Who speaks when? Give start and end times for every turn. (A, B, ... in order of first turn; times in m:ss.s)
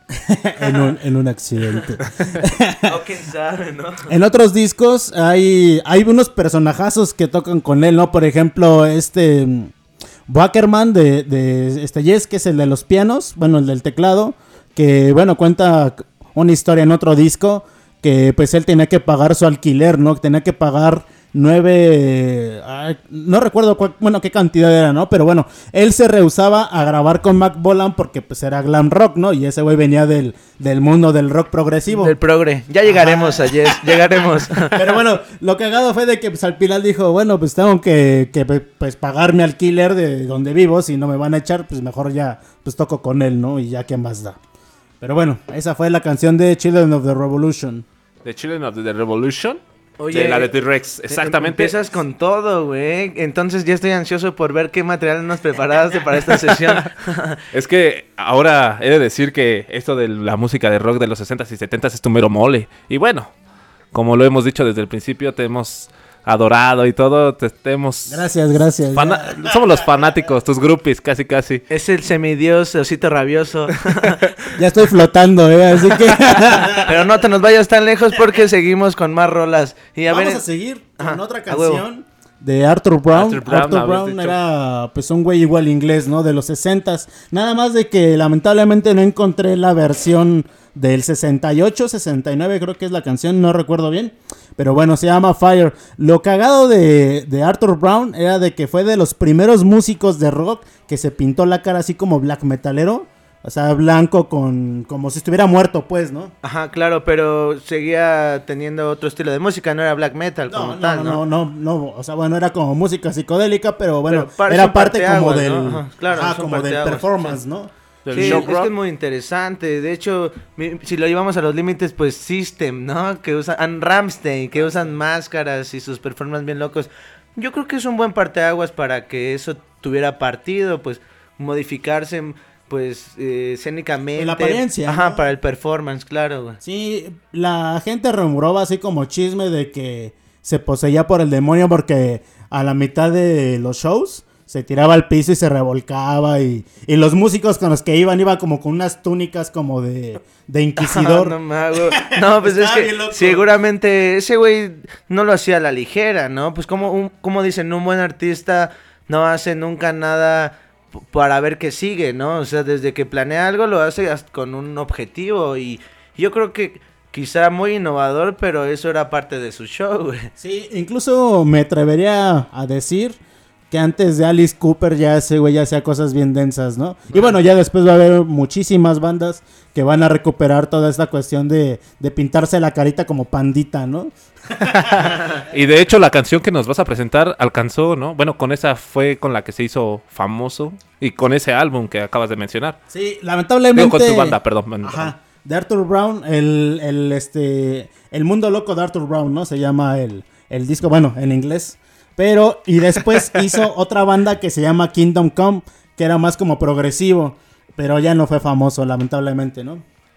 0:00.2-0:02.9 A
0:02.8-0:04.1 B
0:04.1-0:09.7 A
0:10.3-0:32.1 A
0:31.9-0:34.8 B
0:32.8-0:34.0 A
0:34.6-0:44.4 A
0:45.0-0:47.8 A
0:48.2-0:51.7 C
0:50.0-0:50.5 B
0:51.1-0:57.4 B
0:57.5-1:03.3 C
1:03.9-1:08.2 C
1:08.1-1:09.6 A
1:08.9-1:11.6 C
1:11.7-1:14.3 B
1:14.6-1:16.9 A
1:16.8-1:20.4 B
1:20.1-1:46.3 A
1:21.0-1:21.8 B
1:23.1-1:24.4 C
1:46.4-1:51.2 B
1:50.5-1:58.5 A
1:54.1-1:57.3 B
1:58.0-1:58.7 C
1:58.1-2:16.6 B
2:14.2-2:15.3 A
2:16.6-2:31.4 A
2:30.8-2:50.3 B
2:31.9-2:33.5 A
2:50.4-2:53.2 A
2:53.7-3:05.3 A
3:04.8-3:12.8 C
3:12.9-3:29.8 A
3:13.8-3:15.1 C